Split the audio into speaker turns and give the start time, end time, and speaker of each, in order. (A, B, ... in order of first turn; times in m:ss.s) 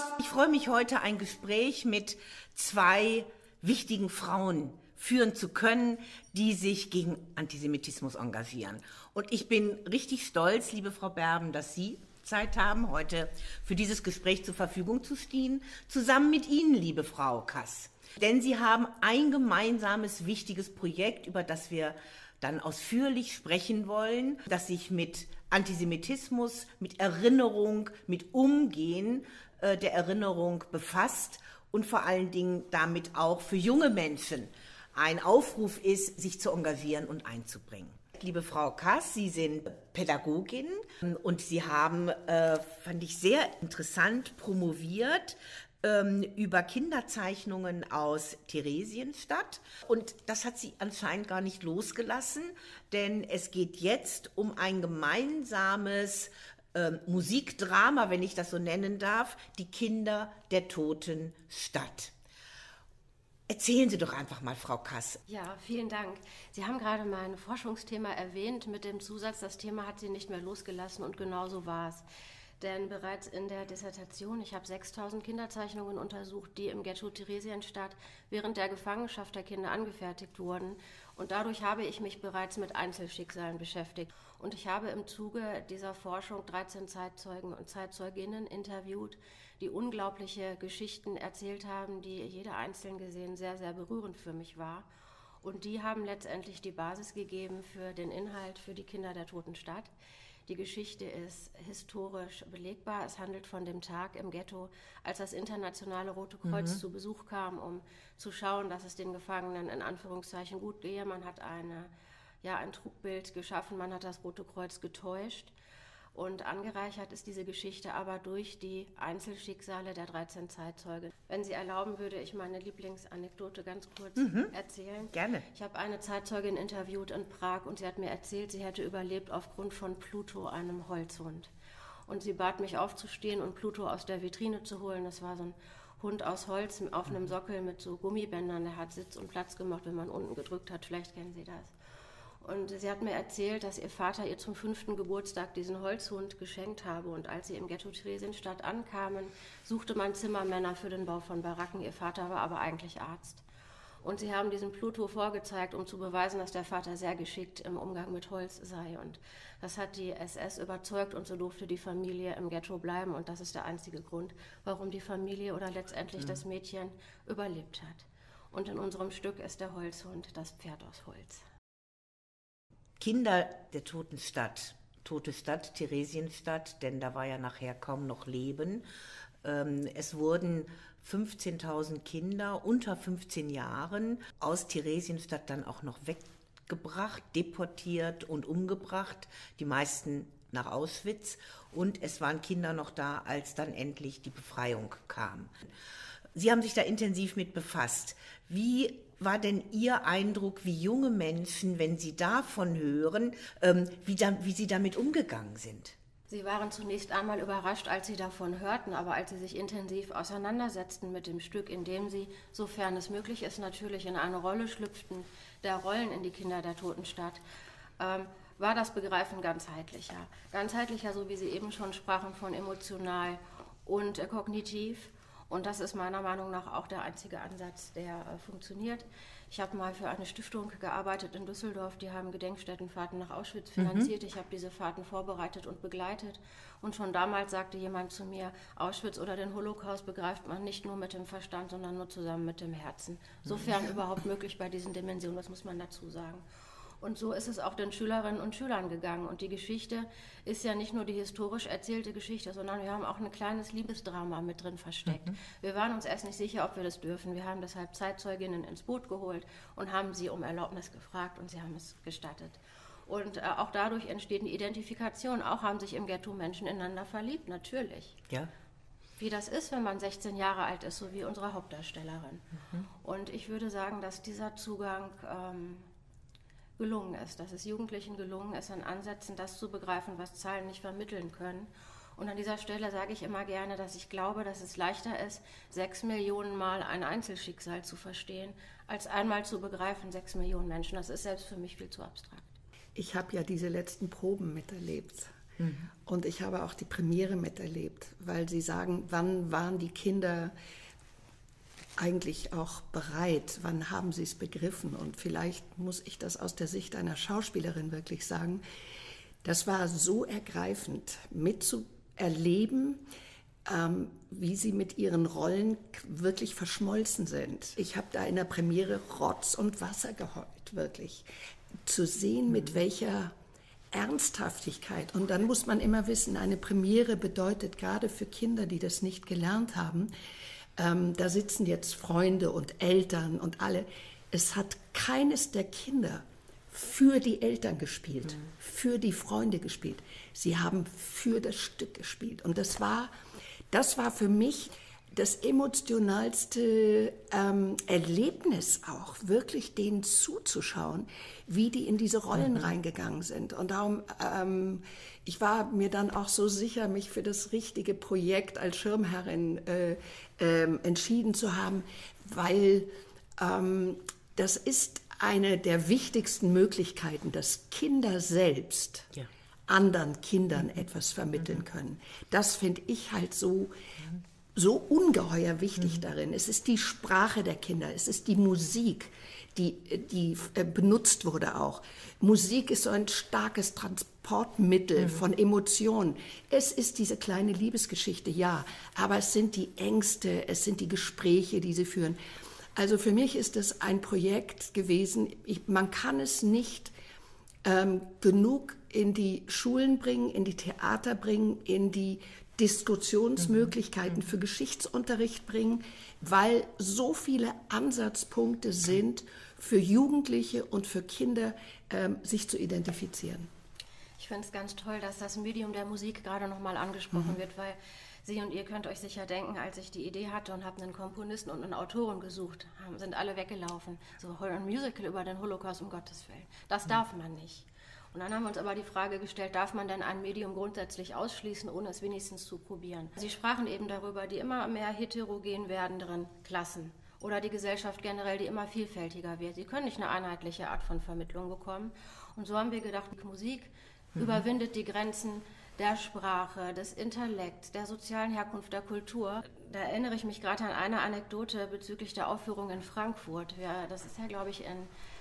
0:00.2-1:02.1 A
1:03.5-1:05.2 A
1:05.3-1:12.0 B
1:12.6-1:34.9 B
1:35.4-1:39.9 B
1:40.4-1:51.9 B
1:46.4-1:46.8 A
1:52.4-1:55.5 B
1:56.1-2:11.5 B
2:04.2-2:04.5 A
2:05.1-2:05.4 A
2:12.1-2:21.7 B
2:22.4-2:33.4 B
2:34.0-2:51.4 B
2:53.0-2:58.8 A
2:59.4-3:15.5 A
3:16.3-3:25.9 A
3:26.3-3:37.4 B
3:38.0-4:06.4 B
3:53.8-3:54.1 A
4:07.0-4:28.2 B
4:15.1-4:15.3 A
4:29.2-4:35.9 B
4:36.8-4:52.5 B
4:53.0-4:55.3 C
4:55.6-4:55.9 A
4:56.0-5:00.5 C
5:02.0-5:08.6 C
5:09.4-5:13.0 C
5:13.6-5:21.3 C
5:21.8-5:23.3 C
5:23.9-5:30.1 C
5:30.8-5:43.1 C
5:43.7-6:09.1 C
5:52.3-5:52.7 A
6:09.7-6:13.7 C
6:11.4-6:11.6 A
6:14.5-6:32.2 C
6:15.8-6:16.0 A
6:32.8-6:36.9 C
6:37.6-6:53.5 C
6:43.4-6:44.3 A
6:54.2-7:34.9 B
7:24.2-7:24.4 A